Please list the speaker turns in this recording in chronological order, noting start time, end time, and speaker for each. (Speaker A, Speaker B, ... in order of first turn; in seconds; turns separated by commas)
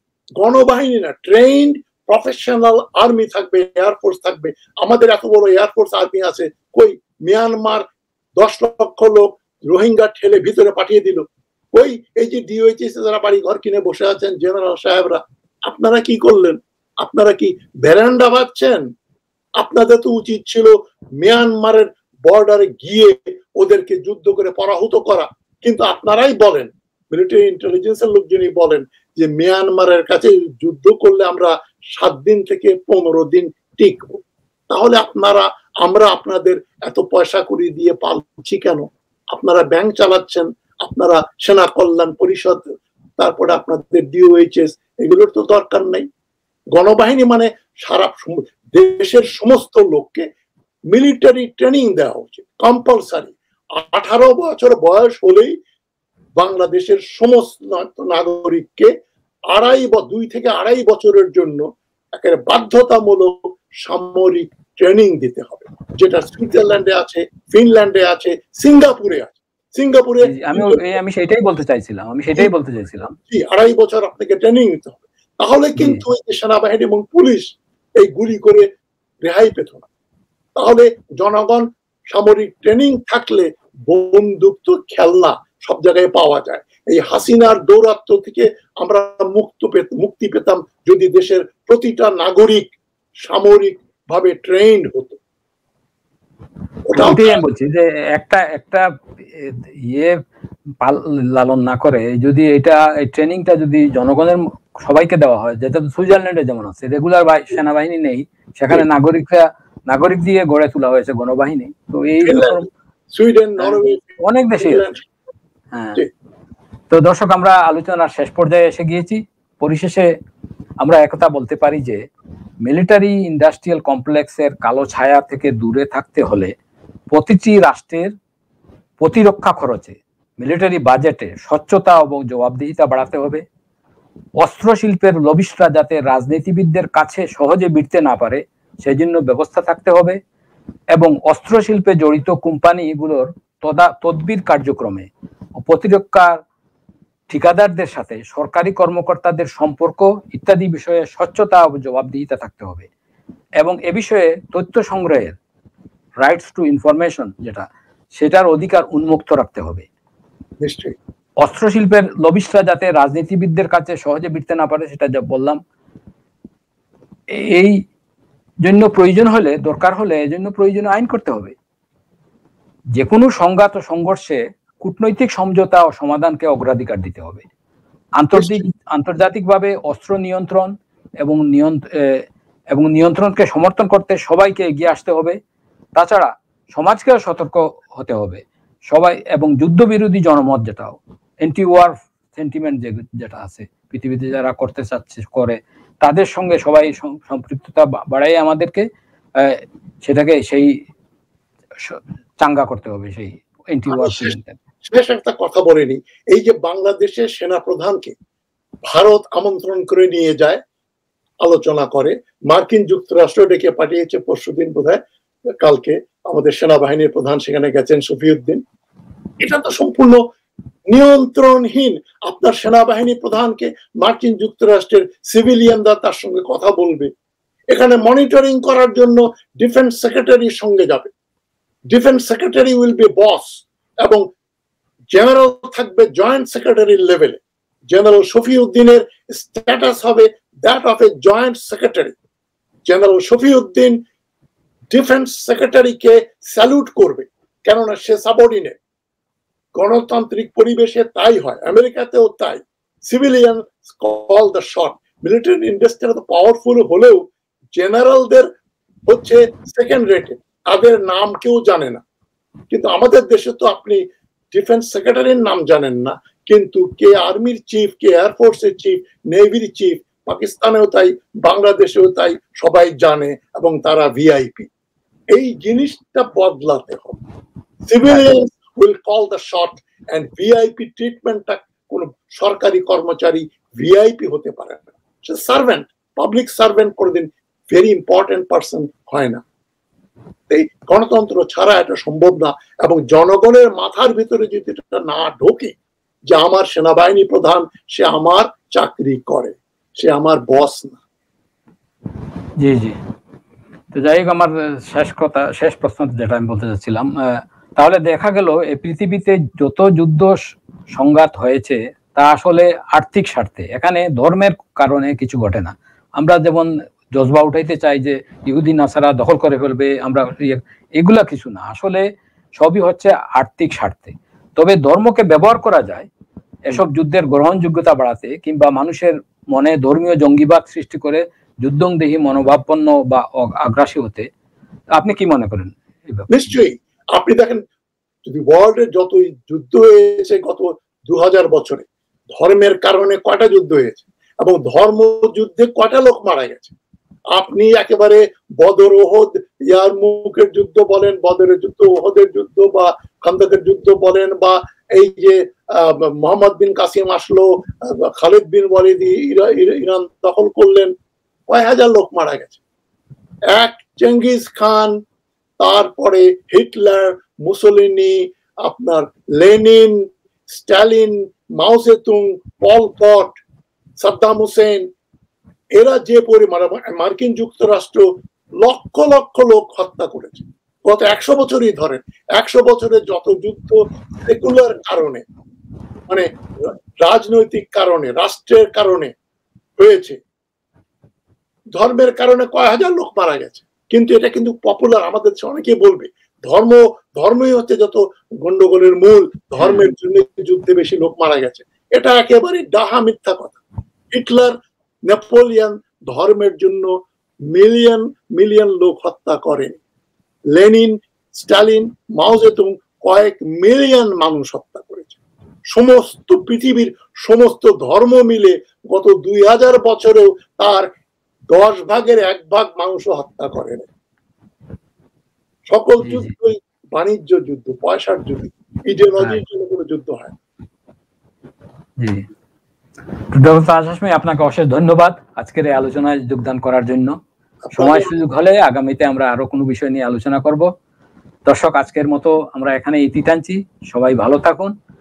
Speaker A: 0.4-7.8, Speaker A: 8.4-18.8, Speaker A: 19.6-34.2, Speaker A: 34.7-42.6, Speaker A: 43.2-46.1, Speaker A: 46.7-50.2, Speaker A: 50.9-55.5, Speaker A: 56.4-58.9, Speaker A: 59.5-61.6, Speaker A: 62.2-70.9, Speaker B: 70.3-73.1, Speaker A: 73.3-78.7, Speaker A: 79.2-79.8, Speaker A: 80.6-92.7, Speaker A: 93.2-95.2, Speaker A: 96.9-97.4, Speaker B: 97.0-98.8, Speaker B: 99.4-100.2, Speaker B: 100.8-112.7, Speaker A: 112.2-115.0, Speaker B: 113.6-114.8, Speaker B: 115.7-116.0, Speaker B: 116.9-120.0, Speaker B: 120.8-122.0, Speaker B: 122.7-126.5, Speaker B: 127.1-128.1, Speaker B: 129.0-133.4, Speaker B: 134.4-140.2, Speaker B: 140.9-145.1, Speaker B: 145.6-146.4, Speaker B: 147.3-152.9, Speaker B: 153.6-155.3, Speaker B: 156.2-157.6, Speaker B: 158.2-159.8, Speaker A: 160.6-160.9, Speaker B: 161.4-165.6, Speaker B: 167.5-167.8, Speaker B: 168.6-171.5, Speaker B: 172.9-177.4, Speaker B: 178.2-185.4, Speaker A: 178.3-178.7, Speaker B: 185.9-198.8, Speaker B: 199.4-200.7, Speaker B: 201.8-204.6, Speaker A: 203.9-208.1, Speaker A: 208.9-210.6, Speaker A: 211.4-215.0, Speaker A: 215.6-218.6, Speaker A: 219.4-220.2, Speaker A: 220.9-227.1, Speaker A: 227.7-231.1, Speaker A: 231.9-234.2, Speaker A: 235.1-237.4, Speaker A: 237.9-242.1, Speaker A: 242.9-244.0, Speaker A: 244.9-248.8, Speaker A: 249.8-258.4, Speaker A: 259.1-262.0, Speaker A: 262.7-274.7, Speaker A: 275.3-277.2, Speaker A: 277.9-289.4, Speaker A: 290.5-295.7, Speaker A: 296.3-301.0, Speaker B: 302.6-303.0, Speaker B: 303.9-310.4, Speaker B: 310.9-322.0, Speaker B: 322.6-326.1, Speaker B: 326.7-334.3, Speaker B: 334.9-336.3, Speaker A: 336.3-337.6, Speaker A: 338.2-341.8, Speaker A: 342.4-346.7, Speaker A: 347.3-360.9, Speaker A: 361.5-362.6, Speaker A: 363.5-364.9, Speaker A: 365.6-373.3, Speaker A: 374.0-374.9, Speaker A: 375.8-378.0, Speaker A: 378.6-385.2, Speaker A: 386.1-389.1, Speaker A: 389.8-390.2, Speaker A: 391.7-403.6, Speaker B: 399.6-399.9, Speaker A: 404.1-404.5, Speaker A: 405.1-406.9, Speaker A: 407.5-409.8, Speaker A: 410.5-415.1, Speaker A: 415.7-420.9, Speaker A: 421.5-423.9, Speaker A: 425.7-430.3, Speaker B: 426.0-426.3, Speaker B: 433.3-437.2, Speaker A: 437.6-438.1, Speaker B: 437.8-440.7, Speaker B: 441.4-444.7